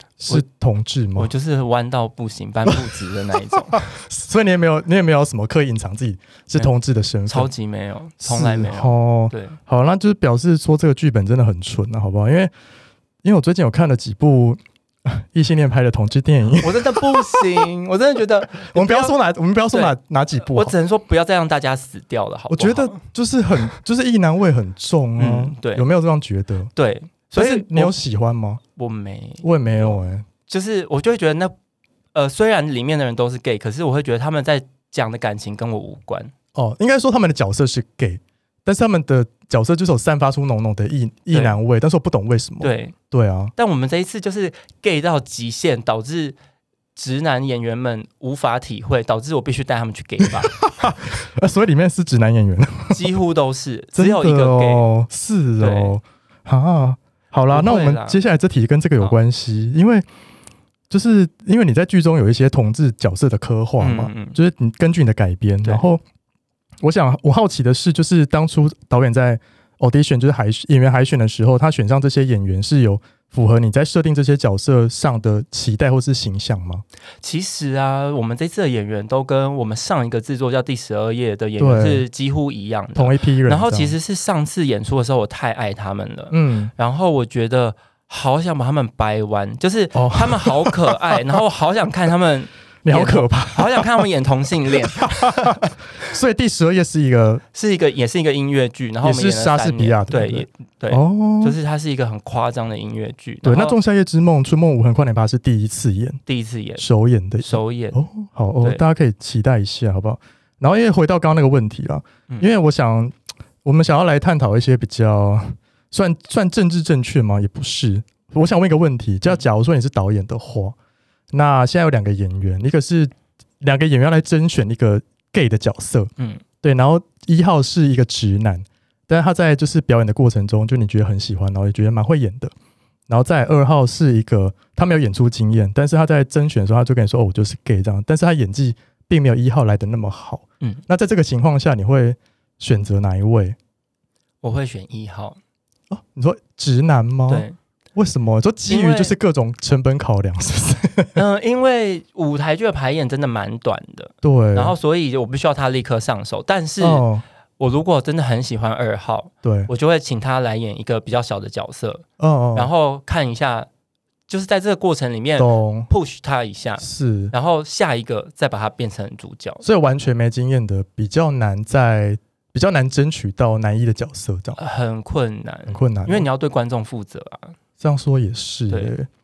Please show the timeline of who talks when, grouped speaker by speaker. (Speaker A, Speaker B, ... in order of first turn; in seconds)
Speaker A: 0.2-1.3, 3.7-7.5, 8.2-12.5, 13.2-17.7, 18.6-20.8, 22.5-26.7, 27.3-28.6, 29.4-30.2, 36.5-43.5, 50.5-53.0, 53.9-60.0, 60.9-66.0, 66.8-76.8, 81.6-82.0, 82.9-83.9, 86.3-86.7, 89.9-91.2, 92.8-94.0, 95.0-97.4, 99.0-101.6, 103.4-106.2, 106.8-120.8, 121.3-126.1, 126.6-132.5, 133.1-143.6, 145.9-151.2, 154.2-154.7, 156.8-157.2, 159.4-159.7, 162.2-162.7, 165.4-165.9, 166.8-167.3, 169.6-174.6, 175.7-176.3, 177.8-179.1
Speaker B: 1.1-3.9, 7.2-9.6, 16.6-19.1, 19.7-23.0, 25.2-25.9, 26.7-27.9, 28.8-31.5, 32.1-36.3, 41.3-41.6, 42.6-42.9, 43.5-46.4, 47.0-50.6, 52.9-54.9, 55.6-56.0, 57.5-58.2, 63.8-64.4, 77.2-95.6, 97.5-103.8, 106.3-106.8, 107.4-108.0, 126.2-126.4, 144.4-145.4, 147.3-147.6, 148.7-149.2, 151.2-157.0, 157.6-163.7, 164.3-169.6, 174.6-177.6